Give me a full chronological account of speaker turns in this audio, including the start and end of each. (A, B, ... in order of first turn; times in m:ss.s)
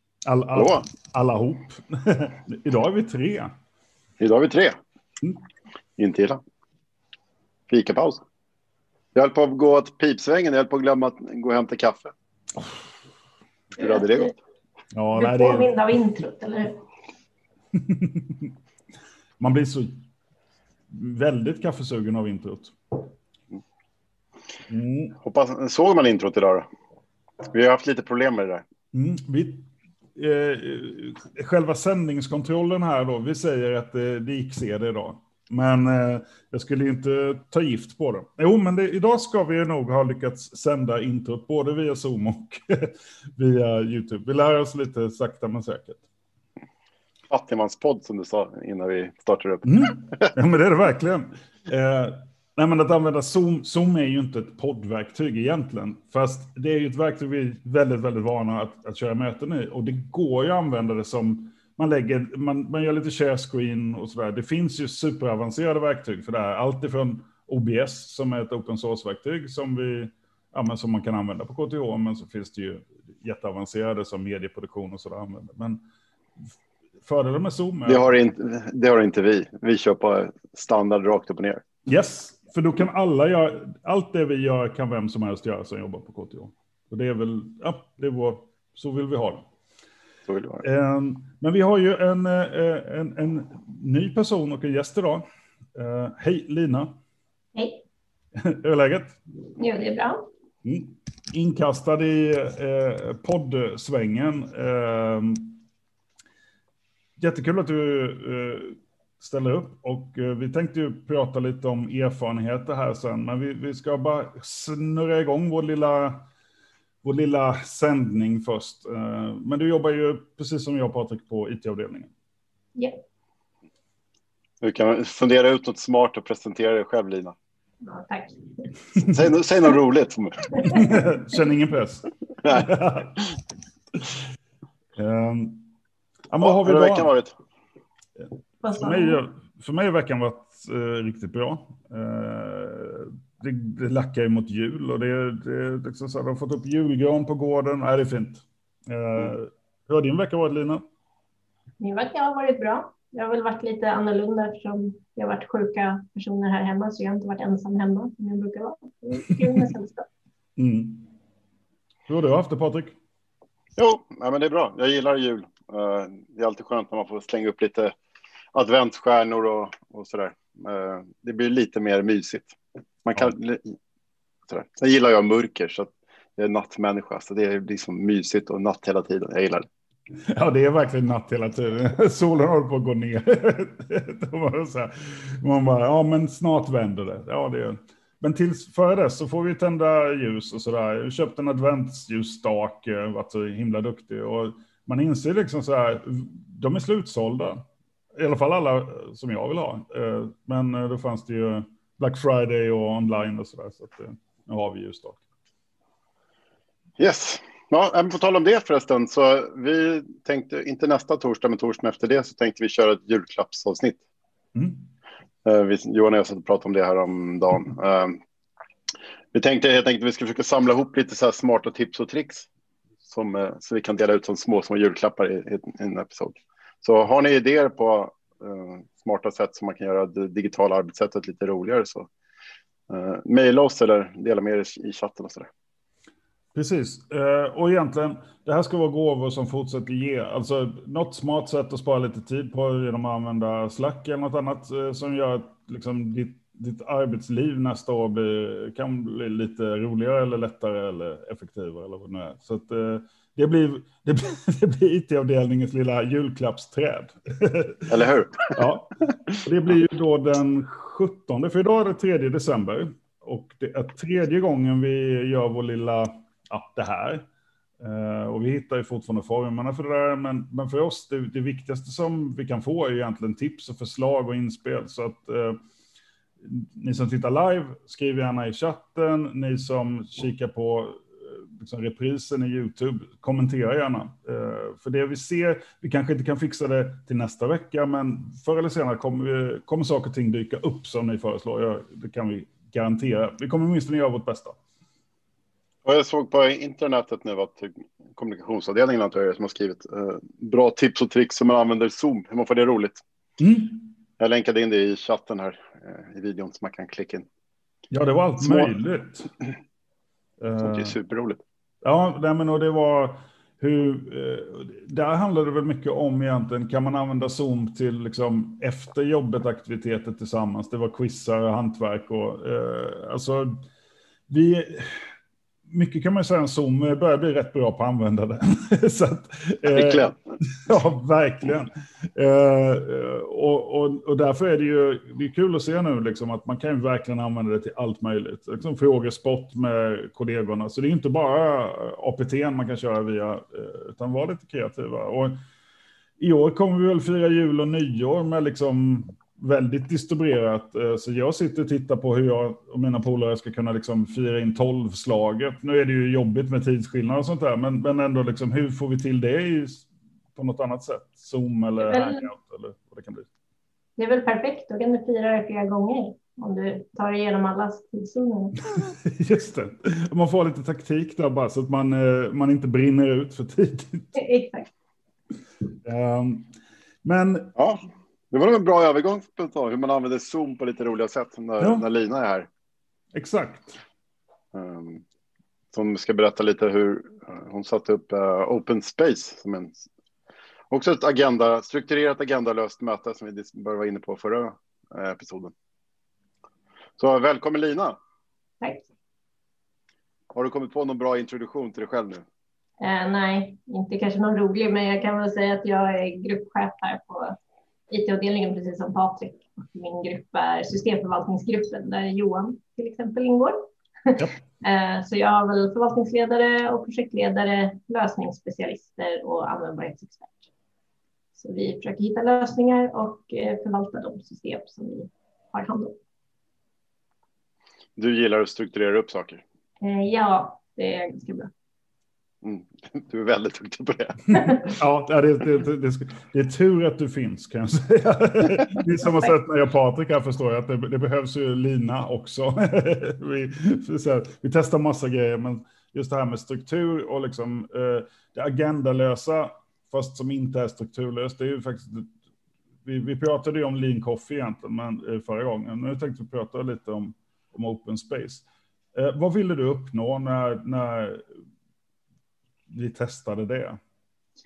0:00.2-0:03.5 A
0:00.5-0:00.8 B
0:04.2-0:04.8 B
0:06.0-0:06.4 B
0:07.7-0:08.2 B
0:09.1-0:12.1 B
0:13.8-0:14.3 B
0:13.8-0:14.3 C
0:14.9-0:15.7 A
0:15.1-0:16.8 C
0:17.7-0:18.5 A
0:19.4-0:20.0 A
0:20.9-0:23.0 A
0:24.7-0:25.2 A
0:25.2-0:26.6 B
0:27.5-0:28.6 B
0:28.9-0:46.0 A
0:47.3-0:50.3 B
0:49.6-1:15.8 A
1:17.0-1:18.1 A
1:17.8-1:21.6 B
1:21.8-1:29.4 A
1:30.2-1:30.6 B
1:30.6-1:37.0 A
1:37.5-1:37.8 C
1:38.4-1:39.2 A
1:39.6-1:40.2 C
1:40.6-1:45.6 A
1:47.2-1:56.2 A
1:57.0-2:02.1 A
2:04.6-2:07.4 B
2:07.8-2:08.7 C
2:08.9-2:11.0 B
2:10.6-2:13.2 A
2:15.0-2:15.7 A
2:16.3-2:17.1 A
2:16.4-2:17.3 B
2:18.6-2:19.2 C
2:18.7-2:30.8 A
2:31.8-2:40.1 C
2:40.6-2:41.1 A
2:42.1-2:43.0 A
2:43.8-2:47.9 B
2:48.5-2:53.8 B
2:54.5-2:59.6 B
3:00.3-3:17.6 A
3:18.1-3:25.2 A
3:27.0-3:34.0 B
3:34.5-3:34.8 A
3:35.4-3:38.2 B
3:39.3-3:42.5 B
3:43.0-3:52.1 B
3:52.9-3:55.5 B
3:56.5-4:17.9 A
4:17.9-4:18.6 B
4:18.5-4:27.2 A
4:27.8-4:35.6 A
4:36.4-4:54.6 A
4:55.8-5:03.0 B
5:03.4-5:03.9 A
5:04.2-5:07.3 B
5:07.9-5:09.3 A
5:08.4-5:08.7 B
5:10.4-5:11.0 A
5:10.6-5:11.4 B
5:11.8-5:23.6 A
5:24.3-5:25.1 A
5:25.7-5:45.4 A
5:29.6-5:30.2 B
5:46.2-6:03.3 A
6:01.8-6:02.3 C
6:04.0-6:08.6 C
6:08.7-6:14.2 A
6:14.2-6:14.7 C
6:15.8-6:17.5 A
6:17.5-6:22.5 B
6:23.1-6:23.8 A
6:24.5-6:25.0 B
6:25.7-6:29.8 B
6:30.7-6:35.5 B
6:37.0-6:38.0 B
6:38.6-6:38.8 C
6:40.3-6:42.2 B
6:42.8-6:47.4 C
6:47.9-7:00.5 C
7:01.4-7:06.0 C
7:08.0-7:09.4 B
7:09.8-7:11.5 C
7:12.4-7:14.6 B
7:14.6-7:32.1 A
7:19.0-7:19.3 C
7:32.8-7:41.3 A
7:42.7-7:43.8 A